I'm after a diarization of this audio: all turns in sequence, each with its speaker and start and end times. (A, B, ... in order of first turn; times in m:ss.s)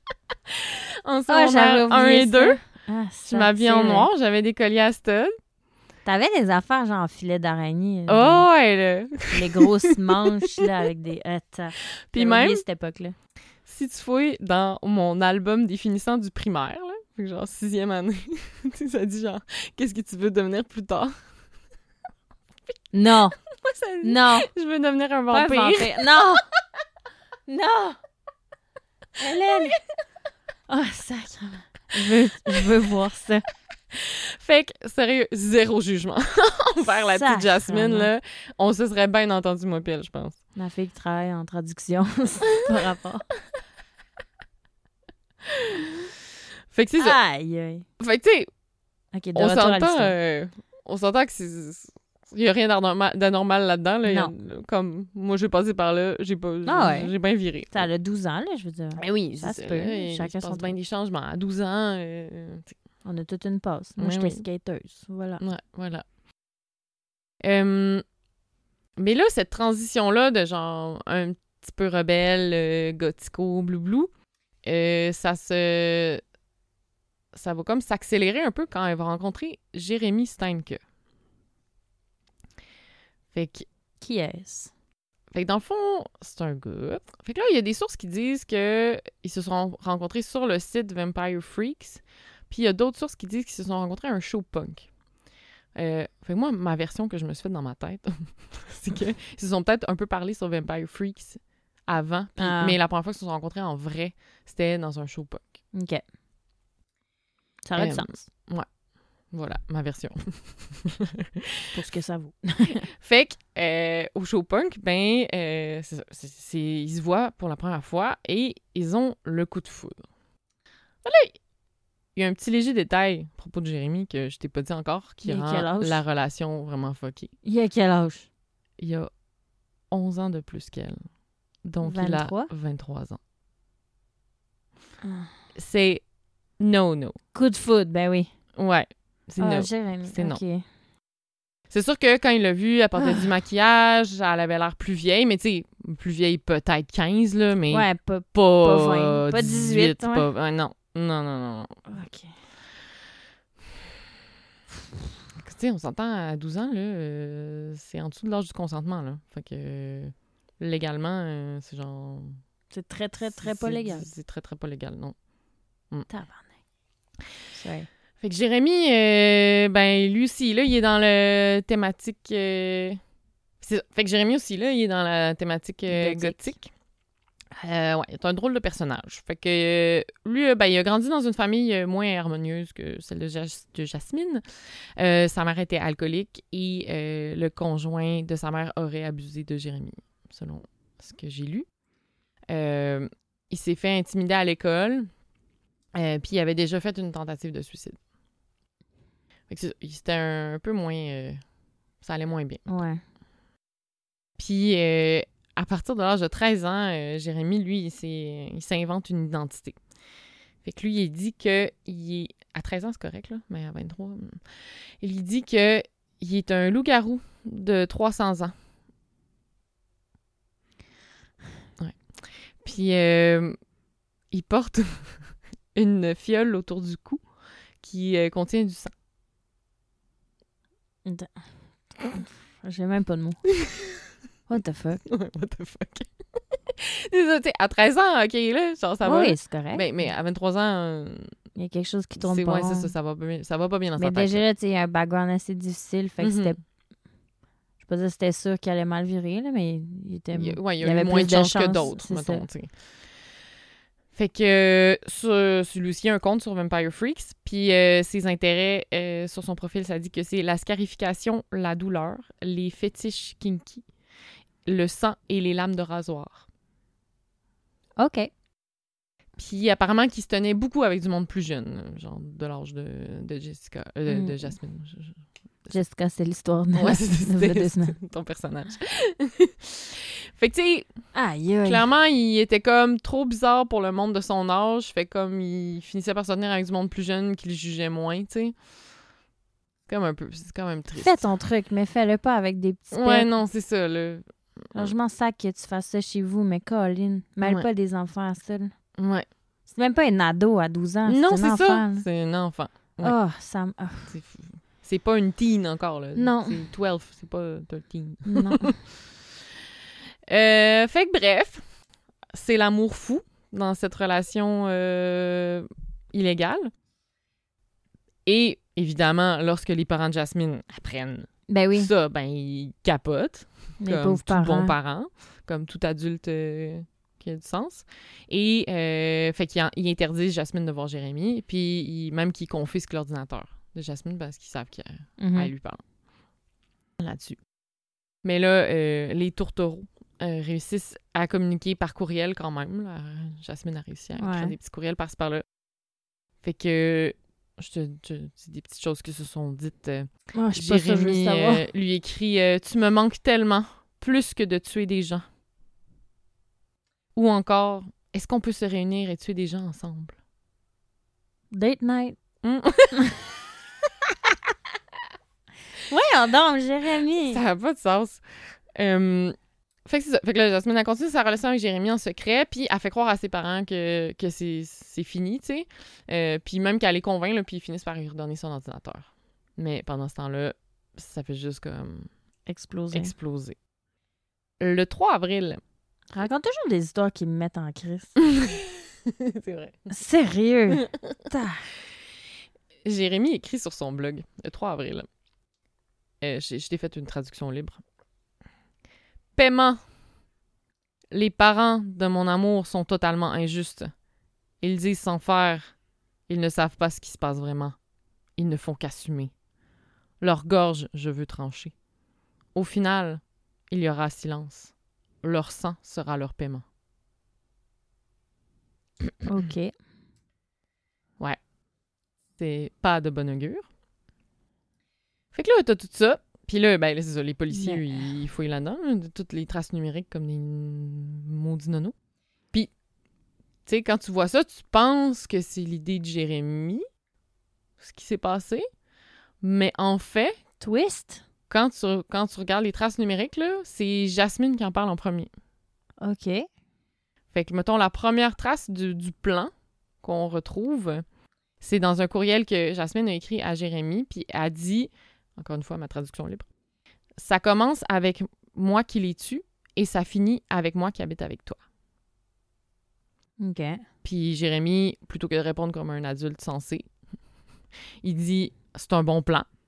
0:00.5-0:02.6 A
0:01.3-0:04.1 B
0:03.2-0:05.3 A
0:06.0-0:08.4 B
0:08.1-0:10.6 A
0:09.3-0:13.1 B
0:12.1-0:12.6 A
0:13.6-0:21.1 A
0:22.9-0:23.4 B
0:23.4-0:26.0 A
0:24.0-0:24.5 B
0:25.3-0:26.4 B
0:27.5-0:28.0 B
0:29.2-0:29.8 B
0:29.3-0:29.7 A
0:30.7-0:33.4 B
0:33.9-0:40.4 A
0:37.0-0:38.1 B
0:40.6-0:43.2 B
0:45.4-0:46.1 A
0:46.7-0:47.2 A
0:47.0-0:47.8 B
0:48.0-0:48.5 A
0:49.1-0:50.1 B
0:49.3-0:57.9 A
0:54.0-0:54.3 B
0:56.6-0:57.1 B
0:57.7-1:00.7 B
0:59.0-1:02.7 A
1:03.0-1:05.4 B
1:04.0-1:04.4 A
1:05.4-1:06.0 A
1:07.4-1:08.0 A
1:09.0-1:14.1 A
1:14.6-1:16.2 A
1:17.3-1:20.8 A
1:23.3-1:23.6 A
1:24.0-1:24.7 B
1:25.3-1:34.9 A
1:35.7-1:45.4 A
1:42.4-1:42.8 B
1:45.7-1:46.0 B
1:47.6-1:48.3 B
1:47.8-1:48.6 A
1:49.3-1:51.7 A
1:51.7-1:52.9 B
1:52.9-2:00.0 A
2:01.0-2:01.3 A
2:02.1-2:07.3 A
2:05.2-2:06.0 B
2:07.4-2:08.3 B
2:08.8-2:09.1 A
2:09.9-2:11.0 A
2:11.6-2:13.2 A
2:11.8-2:12.5 B
2:15.0-2:15.3 B
2:15.6-2:16.0 A
2:16.6-2:17.2 A
2:17.3-2:18.3 B
2:18.6-2:20.4 A
2:19.4-2:20.6 B
2:21.7-2:31.7 A
2:23.0-2:23.3 B
2:27.7-2:30.3 B
2:31.9-2:32.3 B
2:35.4-2:42.4 A
2:42.7-2:44.1 B
2:43.2-2:45.1 A
2:46.1-2:46.5 B
2:47.5-2:47.9 B
2:48.2-2:53.0 A
2:53.6-2:56.7 A
2:55.9-2:56.5 B
2:57.5-3:04.4 A
3:05.0-3:11.6 A
3:12.5-3:15.1 A
3:15.9-3:18.0 A
3:19.5-3:21.4 A
3:22.0-3:22.7 A
3:22.7-3:23.0 B
3:24.4-3:29.8 A
3:30.6-3:38.5 A
3:41.8-3:43.6 A
3:44.3-3:47.2 A
3:47.8-3:48.9 A
3:51.0-3:51.4 B
3:52.0-3:53.4 B
3:53.6-3:54.0 A
3:54.5-3:55.0 B
3:55.0-4:01.3 A
3:59.0-3:59.8 B
4:01.5-4:02.9 B
4:02.2-4:04.4 A
4:04.0-4:06.6 B
4:06.2-4:06.6 A
4:07.8-4:12.4 B
4:10.3-4:12.7 A
4:14.1-4:23.9 A
4:24.6-4:26.4 A
4:28.0-4:28.3 B
4:29.4-4:35.2 A
4:34.1-4:34.5 B
4:35.7-4:38.0 B
4:36.7-4:40.9 A
4:41.1-4:41.8 B
4:41.6-4:48.5 A
4:49.9-4:51.3 A
4:50.9-4:53.3 B
4:52.9-4:54.9 A
4:54.7-4:58.7 B
4:59.0-4:59.2 A
4:59.7-5:02.0 B
5:01.0-5:03.2 A
5:03.0-5:04.1 B
5:04.1-5:08.8 A
5:06.2-5:06.6 B
5:08.3-5:08.8 B
5:10.3-5:11.6 A
5:12.3-5:16.7 A
5:18.2-5:35.8 A
5:21.5-5:21.9 B
5:23.8-5:24.7 B
5:35.2-5:35.5 B
5:37.0-5:37.4 A
5:38.2-5:45.4 A
5:44.2-5:44.5 B
5:46.4-5:55.2 A
5:50.3-5:51.6 B
5:57.1-6:00.2 A
6:01.5-6:02.2 B
6:02.4-6:03.0 A
6:05.9-6:07.4 B
6:07.3-6:08.2 A
6:08.7-6:22.1 A
6:22.5-6:23.1 B
6:22.9-6:23.6 A
6:24.6-6:25.6 A
6:26.1-6:28.2 B
6:28.2-6:29.9 A
6:29.9-6:31.6 B
6:30.7-6:31.0 A
6:32.8-6:35.1 A
6:36.2-6:37.8 A
6:39.4-6:39.8 A
6:41.1-6:43.9 A
6:44.6-6:45.7 A
6:46.3-6:47.7 A
6:48.4-6:49.3 A
6:50.2-6:51.7 A
6:52.5-6:56.6 A
6:59.2-6:59.7 B
7:02.4-7:03.7 A
7:05.3-7:11.9 A
7:07.5-7:08.0 B
7:13.6-7:16.8 A
7:17.8-7:18.6 A
7:19.4-7:20.4 A
7:20.6-7:21.2 B
7:21.5-7:25.3 A
7:26.0-7:26.4 B
7:27.3-7:29.5 A
7:30.0-7:31.0 A
7:31.6-7:36.4 A
7:37.2-7:41.6 A
7:43.4-7:43.8 B
7:44.0-7:46.8 A
7:48.0-7:49.5 A